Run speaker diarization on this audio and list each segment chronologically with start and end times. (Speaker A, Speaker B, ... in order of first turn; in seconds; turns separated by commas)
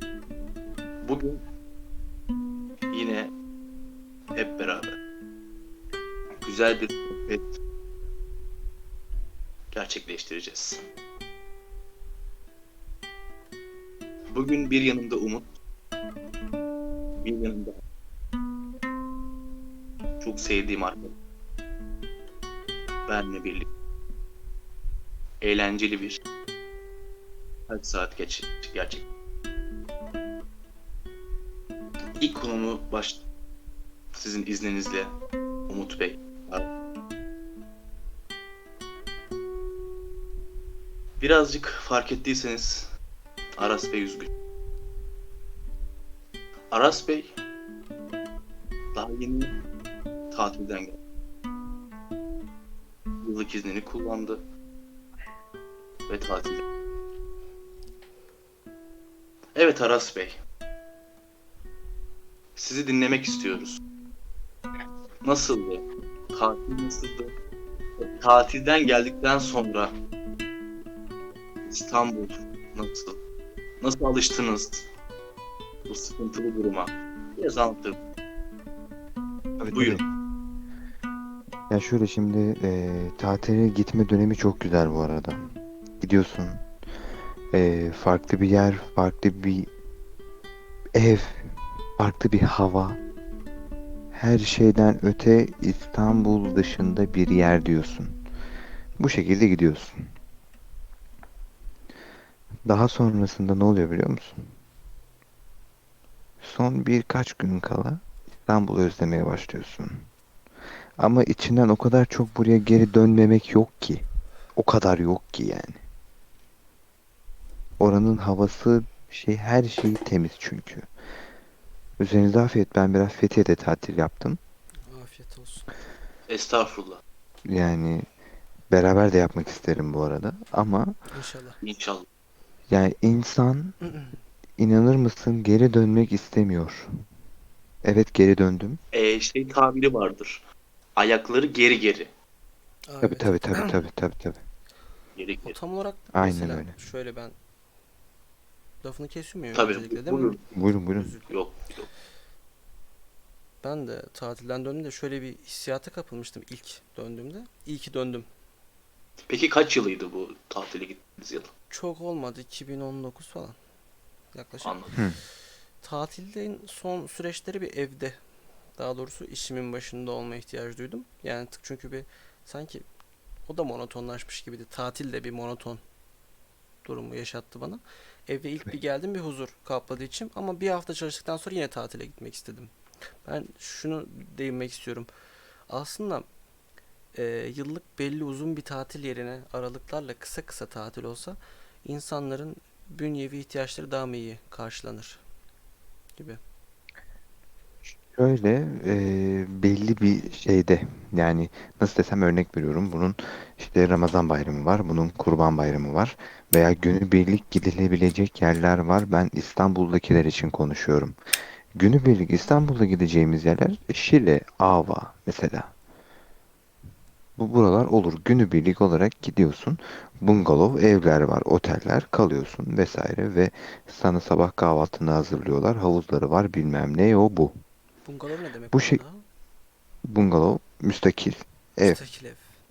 Speaker A: 1.0-1.4, Speaker A: 2.9-3.3, Speaker A: 4.3-4.9, Speaker A: 6.4-7.5, Speaker A: 9.7-10.8, Speaker A: 14.3-15.5, Speaker A: 17.2-17.8, Speaker A: 20.2-21.1, Speaker A: 23.1-23.7, Speaker A: 25.4-26.2, Speaker A: 27.7-29.1, Speaker A: 32.2-33.2, Speaker A: 34.1-35.1, Speaker A: 35.7-36.7, Speaker A: 41.2-42.9, Speaker A: 43.6-44.3, Speaker A: 46.7-47.3, Speaker A: 48.9-49.5, Speaker A: 50.3-51.0, Speaker A: 53.2-54.4, Speaker A: 56.1-56.6, Speaker A: 59.5-60.4, Speaker A: 62.5-63.8, Speaker A: 65.2-67.3, Speaker A: 68.0-69.9, Speaker A: 71.7-73.2, Speaker A: 73.8-74.9, Speaker A: 75.9-78.0, Speaker B: 79.6-80.0, Speaker A: 79.7-80.0, Speaker B: 81.7-85.5, Speaker B: 86.0-86.6, Speaker B: 87.5-89.7, Speaker B: 90.9-91.5, Speaker B: 92.0-93.0, Speaker B: 94.1-98.2, Speaker B: 99.0-100.0, Speaker B: 102.7-104.4, Speaker B: 106.4-110.1, Speaker B: 111.0-114.0, Speaker B: 114.5-115.8, Speaker B: 117.8-120.9, Speaker B: 122.0-124.4, Speaker C: 124.9-125.7, Speaker A: 126.3-127.0, Speaker B: 127.5-128.0, Speaker B: 128.7-130.9, Speaker C: 131.1-131.6, Speaker A: 131.6-132.1, Speaker B: 132.7-133.7, Speaker C: 133.8-134.2, Speaker B: 134.6-136.9, Speaker B: 137.8-138.8, Speaker A: 138.9-140.4, Speaker A: 141.0-142.1, Speaker C: 142.9-143.8, Speaker B: 143.0-144.4, Speaker A: 145.2-145.6, Speaker C: 145.4-147.3, Speaker B: 146.1-146.7, Speaker C: 148.8-150.3, Speaker A: 149.5-150.4, Speaker B: 150.5-151.2, Speaker C: 150.9-151.3, Speaker A: 151.3-151.8, Speaker C: 153.6-158.3, Speaker A: 159.3-161.5, Speaker C: 161.7-163.6, Speaker C: 164.3-164.8, Speaker A: 164.6-164.9, Speaker B: 164.9-165.2, Speaker C: 165.8-168.2, Speaker C: 168.8-172.8, Speaker C: 173.4-175.8, Speaker C: 176.8-182.7, Speaker C: 183.2-185.1, Speaker C: 185.7-186.3, Speaker C: 187.1-195.2, Speaker B: 198.1-211.2, Speaker B: 211.7-215.7, Speaker B: 217.4-227.6, Speaker C: 228.0-229.2, Speaker B: 228.7-229.0, Speaker B: 230.0-232.0, Speaker C: 231.8-232.4